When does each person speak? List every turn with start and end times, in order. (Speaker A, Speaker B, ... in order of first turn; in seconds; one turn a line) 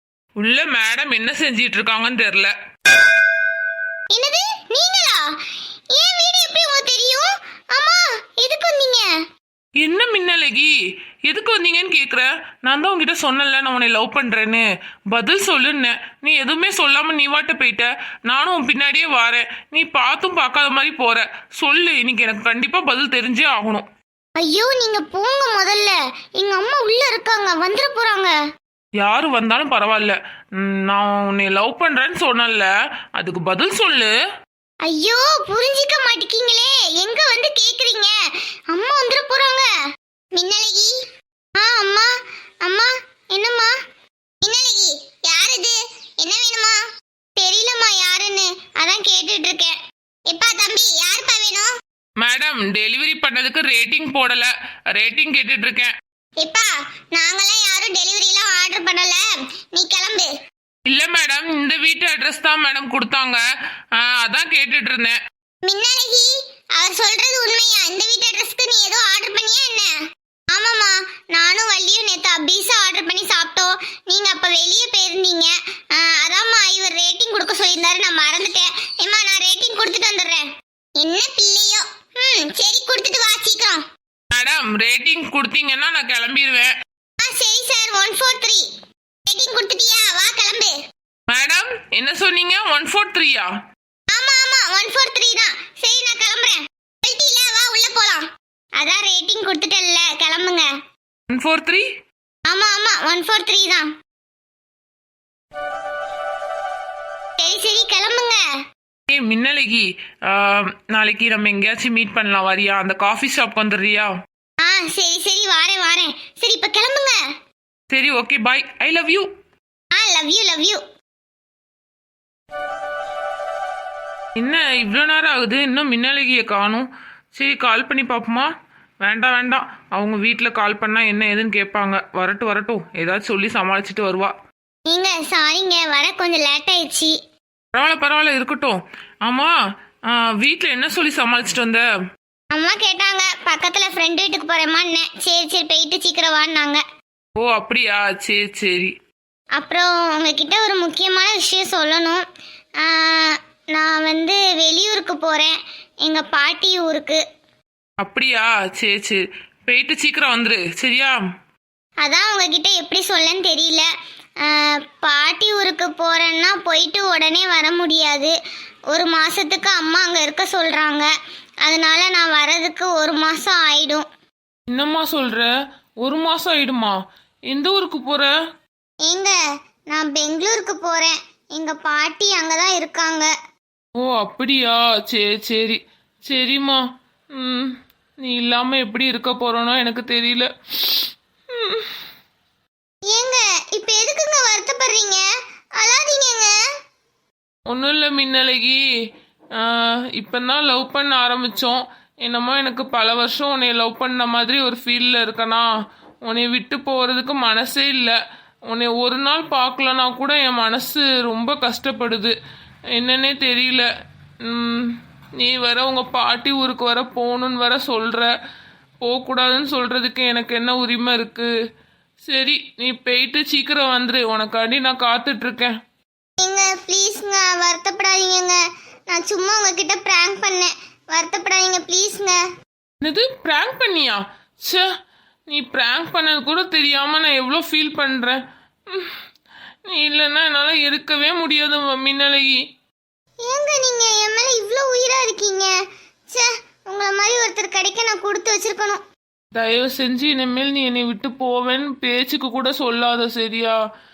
Speaker A: 0.4-2.5
Speaker B: 4.1-5.3
Speaker B: 5.9-9.1
Speaker A: 9.8-10.7
Speaker A: 11.2-23.9
Speaker B: 24.4-28.4
Speaker A: 29.0-34.1
Speaker B: 34.9-38.1
Speaker B: 38.7-39.7
Speaker B: 40.4-40.9
Speaker B: 41.6-42.1
Speaker B: 42.6-43.7
Speaker B: 44.4-46.8
Speaker B: 47.4-49.7
Speaker B: 50.3-51.7
Speaker A: 52.2-55.9
Speaker B: 56.4-59.2
Speaker B: 59.7-60.3
Speaker A: 60.9-63.4
Speaker A: 64.0-65.2
Speaker B: 65.6-69.9
Speaker B: 70.5-80.4
Speaker B: 81.0-83.8
Speaker A: 84.3-86.7
Speaker B: 87.2-88.7
Speaker B: 89.3-90.7
Speaker A: 91.3-93.5
Speaker B: 94.1-98.2
Speaker B: 98.8-100.7
Speaker A: 101.3-101.8
Speaker B: 102.5-103.9
Speaker B: 107.4-108.4
Speaker A: 109.1-114.1
Speaker B: 114.6-117.2
Speaker A: 117.9-119.3
Speaker B: 119.9-120.8
Speaker A: 124.4-128.5
Speaker A: 129.0-134.3
Speaker B: 134.9-137.1
Speaker A: 137.7-139.5
Speaker A: 140.1-141.8
Speaker B: 142.5-146.8
Speaker A: 147.4-148.9
Speaker B: 149.6-152.2
Speaker B: 152.8-157.2
Speaker A: 158.0-161.2
Speaker B: 162.0-163.9
Speaker B: 164.5-168.3
Speaker B: 168.9-171.1
Speaker B: 171.7-174.0
Speaker A: 174.7-175.5
Speaker A: 176.0-177.0
Speaker A: 177.5-178.3
Speaker B: 179.1-179.3
Speaker B: 179.9-183.3
Speaker A: 184.0-186.8
Speaker A: 187.3-190.5
Speaker A: 191.5-191.8
Speaker B: 193.1-195.2
Speaker B: 195.8-196.5
Speaker A: 197.7-198.8
Speaker A: 199.6-205.7
Speaker A: 206.2-208.2
Speaker A: 208.7-212.3
Speaker A: 213.0-213.9
Speaker A: 214.5-218.3
Speaker A: 219.0-221.5
Speaker A: 222.2-225.8
Speaker B: 226.4-228.6
Speaker B: 229.1-232.4
Speaker A: 233.0-234.8
Speaker A: 235.5-239.1
Speaker A: 239.8-242.6
Speaker B: 243.5-245.7
Speaker B: 246.3-249.0
Speaker A: 249.5-253.8